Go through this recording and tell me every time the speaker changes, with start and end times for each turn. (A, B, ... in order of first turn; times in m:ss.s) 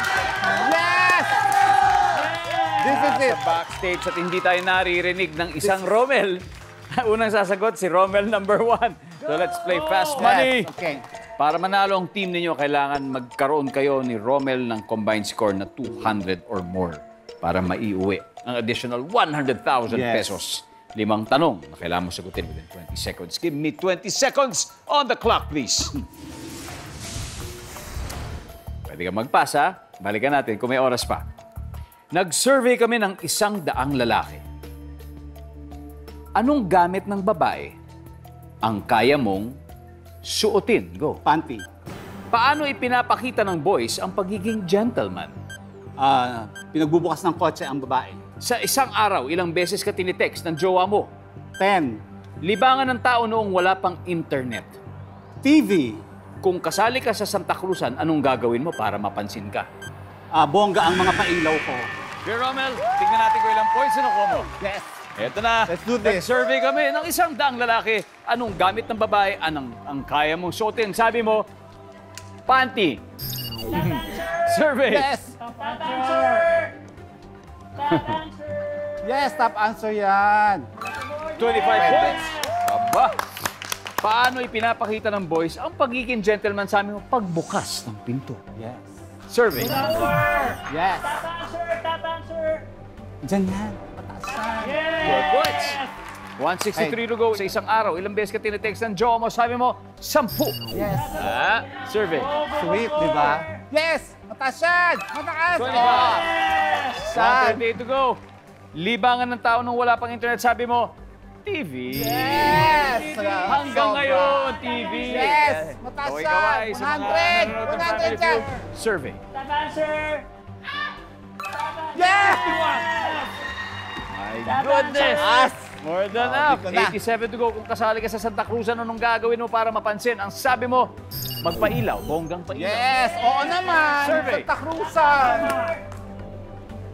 0:00.4-0:01.5 A
0:02.8-0:03.4 A
0:02.8-0:10.7 B
0:10.1-0:11.0 A
0:11.4-0:26.0 B
0:19.9-0:20.4 A
0:28.9-0:31.2 B
0:32.1-0:34.4 B
0:36.4-0:37.7 B
0:38.6-0:39.6 B
0:40.2-0:41.2 B
0:41.2-0:41.6 A
0:42.3-0:45.3 B
0:46.0-0:48.2 A
0:48.4-0:51.1 B
0:51.6-0:52.0 A
0:52.4-0:54.8 B
0:55.4-0:56.0 A
0:56.4-0:59.7 B
1:00.3-1:01.9 A
1:02.2-1:04.5 B
1:04.6-1:04.9 A
1:05.2-1:11.5 B
1:05.7-1:06.3 A
1:12.4-1:13.0 B
1:13.6-1:15.1 B
1:14.9-1:15.4 A
1:15.4-1:16.7 C
1:17.8-1:19.0 C
1:17.9-1:18.2 B
1:19.0-1:20.7 A
1:21.0-1:22.2 C
1:21.4-1:23.2 B
1:21.6-1:22.2 A
1:24.0-1:28.4 B
1:28.5-1:28.8 A
1:29.3-1:30.0 B
1:29.6-1:32.6 C
1:30.6-1:31.2 A
1:33.2-1:34.9 A
1:34.6-1:35.9 C
1:35.0-1:35.8 B
1:36.4-1:40.6 B
1:40.7-1:41.3 A
1:41.1-1:42.4 B
1:42.1-1:43.5 C
1:42.5-1:46.3 A
1:45.5-1:46.3 B
1:46.0-1:46.9 C
1:46.9-1:48.2 B
1:47.1-1:47.6 A
1:48.7-1:50.9 B
1:51.4-1:52.8 B
1:51.9-1:58.5 A
1:52.3-1:54.2 C
1:53.4-1:59.2 B
1:59.3-2:00.3 C
2:01.5-2:03.3 C
2:01.9-2:03.1 A
2:04.1-2:13.0 B
2:04.4-2:05.3 C
2:05.1-2:07.0 A
2:12.5-2:15.7 A
2:13.2-2:14.2 C
2:13.9-2:14.5 B
2:14.9-2:15.7 C